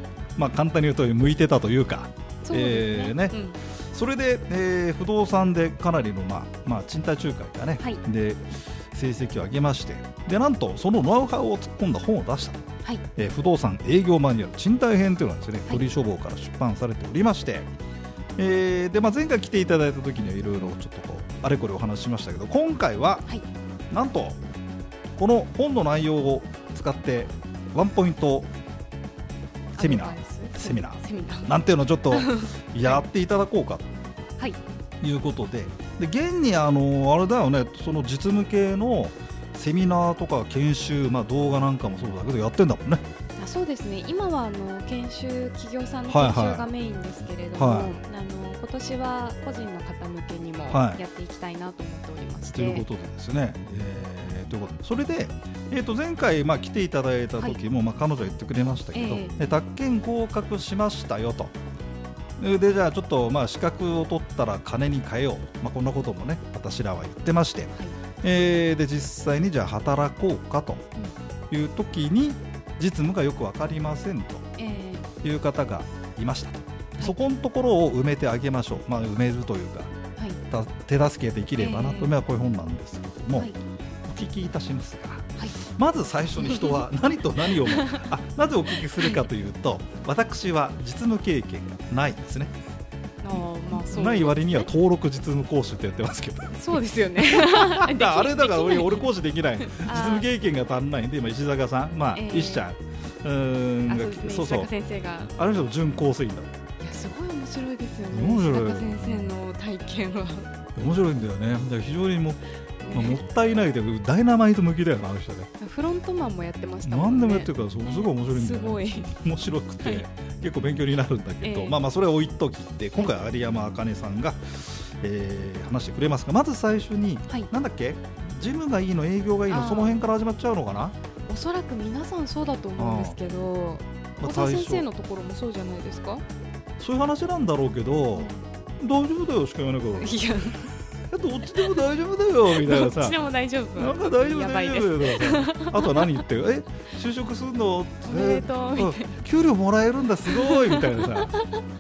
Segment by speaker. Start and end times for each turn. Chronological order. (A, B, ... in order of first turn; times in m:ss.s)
0:00.4-0:12.6 A
0:02.4-0:03.6 B
0:13.2-0:17.7 A
0:18.4-0:23.2 A
0:23.9-0:24.4 A
0:25.2-0:28.5 A
0:29.8-0:31.5 B
0:29.8-0:33.8 A
0:32.1-0:33.0 B
0:35.0-0:43.0 A
0:43.4-0:52.8 B
0:46.1-0:46.7 A
0:47.6-0:47.9 A
0:50.7-0:51.0 A
0:52.5-1:01.5 A
0:58.9-0:59.4 B
1:02.4-1:10.8 A
1:11.5-1:14.4 A
1:14.6-1:15.1 B
1:15.2-1:19.9 A
1:20.5-1:23.5 A
1:21.6-1:22.1 B
1:24.0-1:32.5 A
1:26.4-1:26.8 B
1:27.5-1:28.1 B
1:29.0-1:29.2 B
1:33.2-1:34.7 B
1:33.3-1:44.7 A
1:36.5-1:40.3 B
1:42.1-1:42.7 B
1:43.9-1:45.3 B
1:45.4-1:46.5 A
1:46.8-1:50.5 B
1:48.1-1:49.3 A
1:50.8-1:55.5 A
1:52.8-1:53.2 B
1:55.6-1:59.1 B
1:56.8-2:11.0 A
2:01.4-2:01.8 B
2:03.0-2:03.4 B
2:09.5-2:10.0 B
2:11.3-2:16.2 B
2:12.8-2:13.2 A
2:14.2-2:14.9 A
2:16.8-2:23.2 A
2:18.1-2:18.4 B
2:19.9-2:20.7 B
2:22.5-2:26.2 B
2:23.8-2:31.3 A
2:28.0-2:29.2 B
2:30.2-2:31.6 B